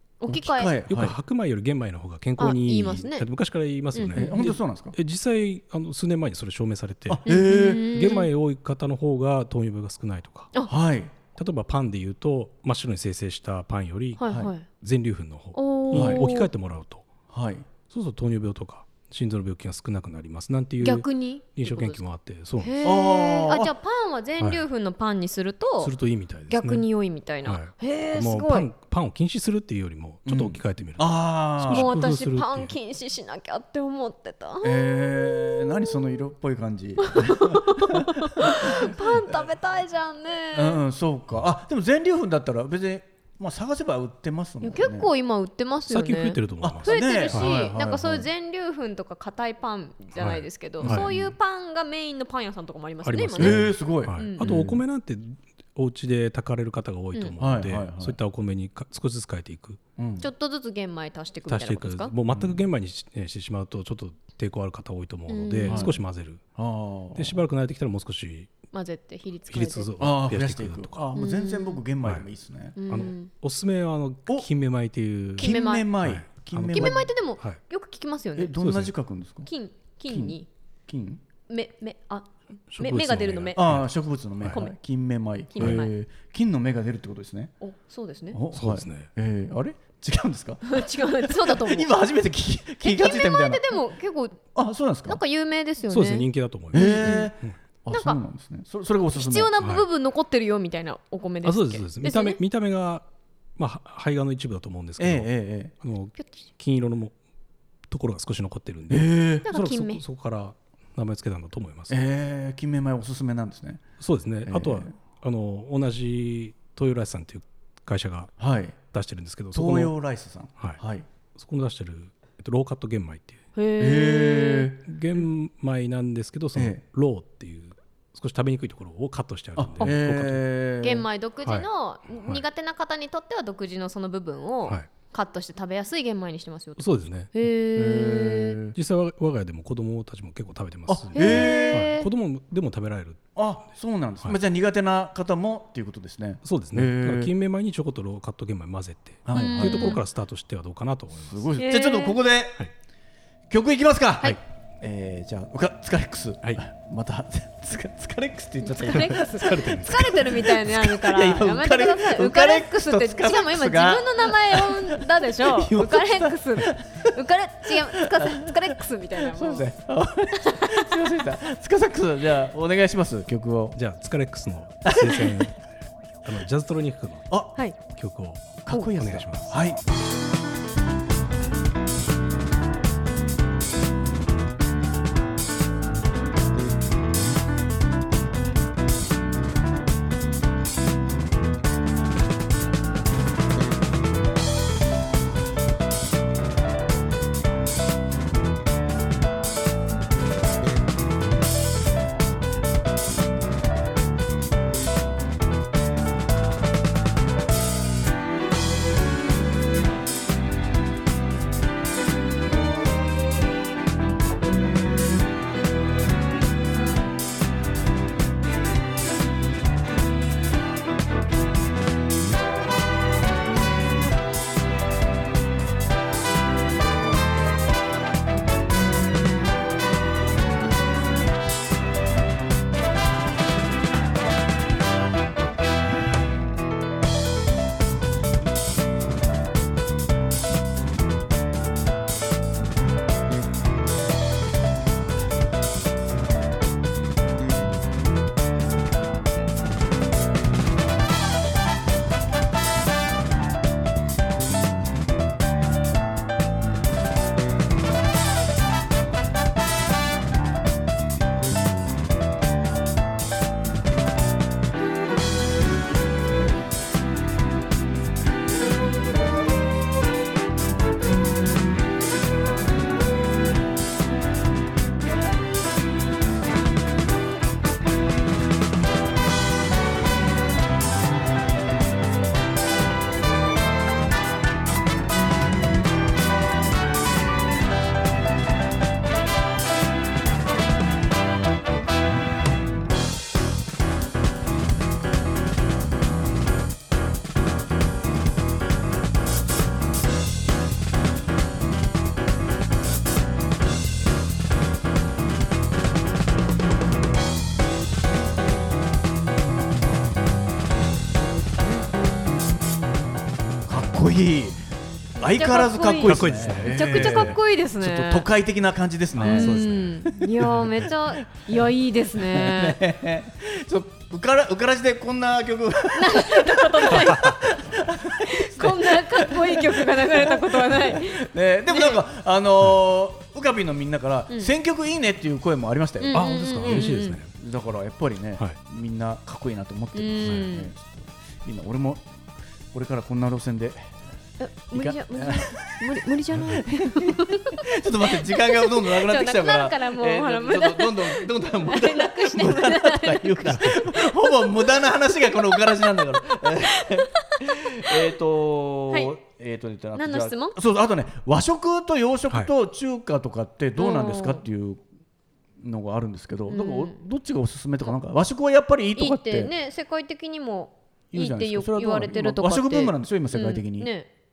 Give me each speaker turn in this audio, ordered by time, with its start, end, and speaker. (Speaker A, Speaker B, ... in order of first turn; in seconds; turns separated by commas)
Speaker A: 0.2-0.7, Speaker B: 0.3-1.2, Speaker C: 0.8-10.5, Speaker A: 2.4-3.3, Speaker A: 4.0-4.5, Speaker B: 4.1-5.0, Speaker B: 7.1-8.1, Speaker A: 7.3-8.3, Speaker B: 10.7-11.1, Speaker C: 11.4-17.1, Speaker A: 14.2-14.7, Speaker A: 15.6-16.5, Speaker B: 15.9-16.2, Speaker B: 17.3-17.7, Speaker C: 17.9-22.8, Speaker A: 20.8-22.0, Speaker A: 22.6-25.9, Speaker B: 22.8-23.7, Speaker C: 25.8-26.9, Speaker A: 26.5-28.7, Speaker C: 27.4-32.8, Speaker B: 30.3-31.9, Speaker A: 31.7-36.0, Speaker B: 34.6-39.4, Speaker A: 37.0-40.8, Speaker B: 40.5-45.1, Speaker A: 44.6-54.5, Speaker C: 45.9-47.5, Speaker B: 46.6-48.3, Speaker C: 50.2-51.1, Speaker B: 50.8-51.3, Speaker C: 53.0-59.8, Speaker B: 53.4-54.8, Speaker B: 57.4-58.2, Speaker B: 60.0-60.3, Speaker A: 60.2-62.1, Speaker C: 61.5-66.4, Speaker B: 62.3-62.6, Speaker A: 65.3-65.9, Speaker B: 65.7-66.0, Speaker B: 66.6-67.4, Speaker C: 67.2-68.5, Speaker A: 68.7-69.9, Speaker C: 69.5-71.1, Speaker B: 70.0-72.8, Speaker A: 71.2-71.8, Speaker A: 72.8-73.3, Speaker C: 72.9-77.6, Speaker A: 75.4-75.9, Speaker B: 75.4-77.1, Speaker A: 76.7-78.5, Speaker B: 78.4-79.5, Speaker C: 78.6-78.9, Speaker A: 79.5-80.5, Speaker B: 80.1-81.2, Speaker A: 81.5-83.7, Speaker C: 82.7-83.9, Speaker B: 83.5-87.5, Speaker A: 85.5-85.9, Speaker C: 85.6-85.8, Speaker A: 87.6-88.4, Speaker B: 88.3-93.7, Speaker C: 88.5-89.1, Speaker A: 90.7-91.9, Speaker A: 92.8-94.5, Speaker B: 94.5-95.2, Speaker A: 95.1-97.3, Speaker C: 95.9-97.6, Speaker B: 96.7-99.5, Speaker A: 97.9-98.2, Speaker A: 99.1-102.4, Speaker C: 99.6-99.9, Speaker C: 101.4-103.1, Speaker C: 103.6-105.3, Speaker B: 105.0-105.7, Speaker C: 105.8-107.2, Speaker C: 107.9-112.0, Speaker B: 108.9-109.5, Speaker A: 109.5-110.0, Speaker B: 111.9-113.8, Speaker C: 114.0-118.3, Speaker B: 114.5-115.0, Speaker B: 118.4-118.8, Speaker C: 118.9-119.9, Speaker B: 119.5-121.1, Speaker C: 121.3-123.4, Speaker A: 123.6-124.7, Speaker B: 123.8-124.8, Speaker C: 124.9-130.4, Speaker B: 126.5-126.8, Speaker B: 129.6-131.1, Speaker A: 130.8-138.6, Speaker C: 136.8-137.3, Speaker B: 137.8-138.8, Speaker C: 138.7-143.2, Speaker B: 140.9-141.9, Speaker A: 141.2-142.1, Speaker B: 143.4-147.3, Speaker C: 146.4-151.5, Speaker B: 149.3-150.0, Speaker A: 149.3-150.0, Speaker B: 151.2-152.6, Speaker A: 151.6-152.2, Speaker B: 153.5-167.1, Speaker A: 158.6-169.7, Speaker C: 159.0-160.2, Speaker B: 167.7-173.8, Speaker A: 170.4-171.0, Speaker C: 173.8-175.6, Speaker B: 174.8-175.5, Speaker C: 176.2-177.3, Speaker B: 177.3-177.6, Speaker C: 177.9-179.6, Speaker B: 178.7-179.8, Speaker B: 313.7-314.6, Speaker B: 315.2-320.6, Speaker A: 315.2-318.3, Speaker C: 316.1-317.4, Speaker C: 319.1-320.9, Speaker A: 319.2-322.8, Speaker B: 322.2-342.1, Speaker A: 325.9-327.6, Speaker C: 326.9-327.4, Speaker A: 328.2-332.0, Speaker A: 336.0-337.2, Speaker C: 336.1-337.3, Speaker A: 339.9-340.7, Speaker B: 342.7-343.9, Speaker A: 344.4-358.1, Speaker B: 344.7-345.8, Speaker B: 346.5-364.8, Speaker C: 353.5-353.8, Speaker A: 359.9-360.6, Speaker A: 363.8-364.4, Speaker B: 365.6-369.5, Speaker A: 366.5-367.0, Speaker A: 369.0-374.1, Speaker B: 371.1-373.9